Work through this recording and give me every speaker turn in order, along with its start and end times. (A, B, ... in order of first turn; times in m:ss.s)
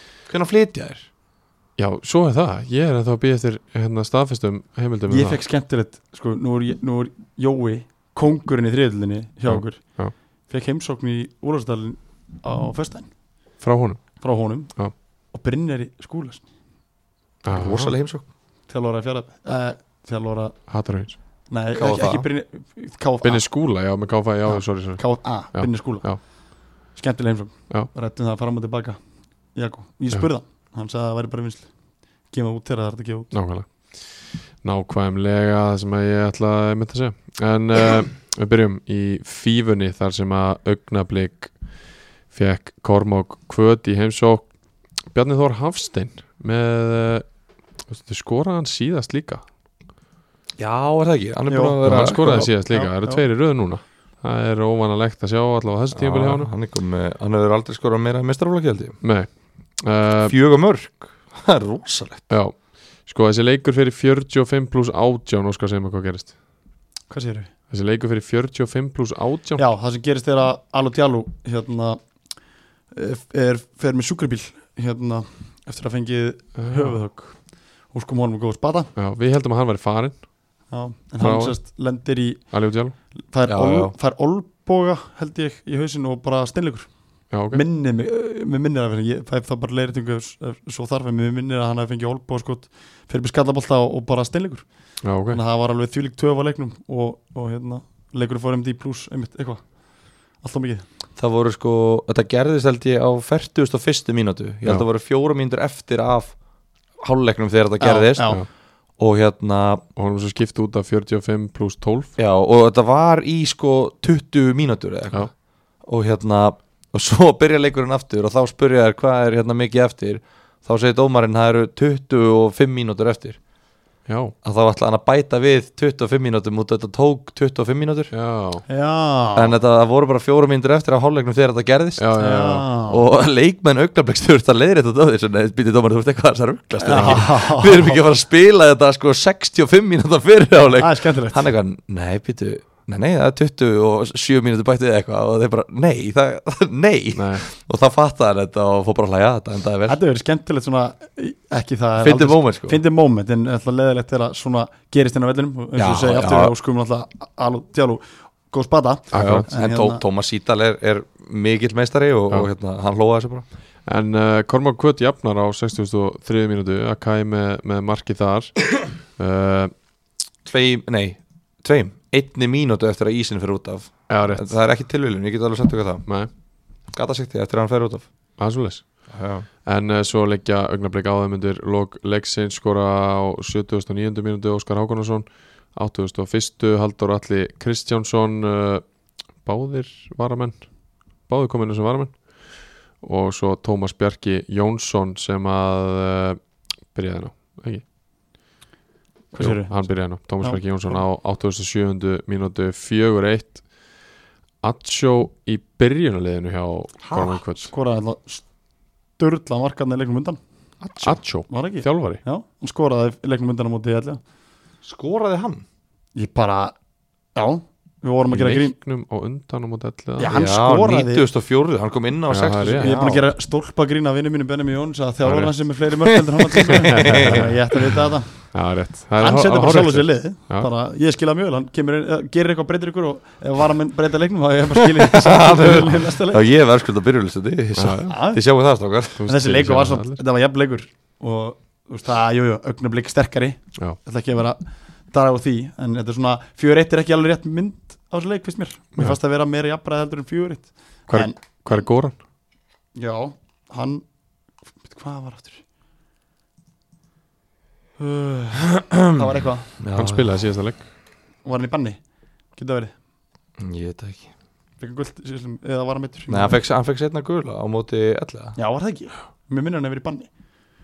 0:00.3-0:01.1 A
0:01.8-0:05.4 B
0:05.1-0:13.1 C
0:09.5-0:10.1 B
0:13.6-0:14.9 B
0:14.2-0:16.5 C
0:17.4-0:17.9 B
0:17.5-0:18.2 A
0:18.7-0:20.6 C
0:20.7-0:21.2 B
0:21.5-0:23.5 C
0:21.7-0:22.3 A
0:23.2-0:26.2 B
0:24.5-0:29.0 C
0:29.5-0:33.3 C
0:33.3-0:41.6 B
0:42.3-0:44.5 B
0:45.0-0:47.3 B
0:47.9-0:49.4 B
0:50.6-0:52.5 A
0:51.5-0:53.2 C
0:51.8-0:56.5 B
0:55.9-0:59.0 A
0:59.0-1:00.3 B
1:00.2-1:02.3 A
1:02.3-1:06.3 B
1:07.1-1:07.5 C
1:07.7-1:09.6 B
1:09.6-1:12.0 C
1:12.9-1:18.9 C
1:16.6-1:17.0 B
1:19.0-1:20.3 B
1:20.7-1:22.5 C
1:21.2-1:21.6 B
1:22.5-1:22.9 B
1:23.2-1:26.9 C
1:23.5-1:23.9 A
1:27.3-1:27.6 B
1:27.4-1:39.8 C
1:35.0-1:35.4 B
1:40.4-1:40.8 C
1:41.2-1:46.4 A
1:47.0-1:49.8 A
1:47.8-1:48.4 C
1:49.9-1:52.1 B
1:52.2-2:03.4 A
2:04.0-2:04.3 B
2:04.4-2:08.1 A
2:08.1-2:08.6 B
2:08.7-2:09.6 C
2:09.4-2:12.1 A
2:12.0-2:12.6 B
2:12.2-2:13.0 C
2:12.9-2:30.0 A
2:16.8-2:18.0 C
2:16.9-2:17.3 B
2:20.8-2:21.4 C
2:27.1-2:27.4 B
2:29.9-2:40.0 C
2:32.0-2:32.8 A
2:35.8-2:36.5 A
2:39.1-2:39.5 B
2:39.1-2:43.4 A
2:43.8-2:49.7 B
2:50.4-2:56.1 A
2:54.1-2:54.6 B
2:56.9-2:58.1 A
2:58.4-2:59.1 B
2:59.1-2:59.4 A
2:59.6-3:08.8 B
3:09.4-3:17.8 B
3:19.3-3:21.0 C
3:19.4-3:23.6 B
3:24.6-3:27.7 B
3:27.0-3:27.4 A
3:27.6-3:28.4 C
3:29.2-3:30.4 C
3:30.8-3:31.2 A
3:31.0-3:32.2 B
3:31.5-3:34.2 C
3:34.8-3:35.6 A
3:36.1-3:36.7 C
3:37.3-3:38.7 C
3:38.3-3:40.3 B
3:40.2-3:41.2 C
3:40.3-3:43.3 A
3:42.3-3:42.9 B
3:42.8-3:48.5 C
3:45.2-3:45.5 B
3:46.5-3:47.5 A
3:47.0-3:47.5 B
3:48.5-3:50.7 B
3:49.2-3:56.4 C
3:55.0-3:59.2 A
3:57.8-3:58.2 B
3:58.1-3:58.4 C
3:59.2-4:00.2 B
3:59.3-4:11.4 C
4:11.1-4:12.2 B
4:12.9-4:14.0 C
4:14.8-4:15.6 C
4:18.0-4:19.7 C
4:18.7-4:19.0 A
4:19.8-4:20.4 A
4:19.9-4:20.9 B
4:21.4-4:22.0 C
4:22.5-4:22.9 C
4:23.6-4:24.3 A
4:24.8-4:26.6 C
4:26.3-4:28.6 A
4:28.6-4:30.3 C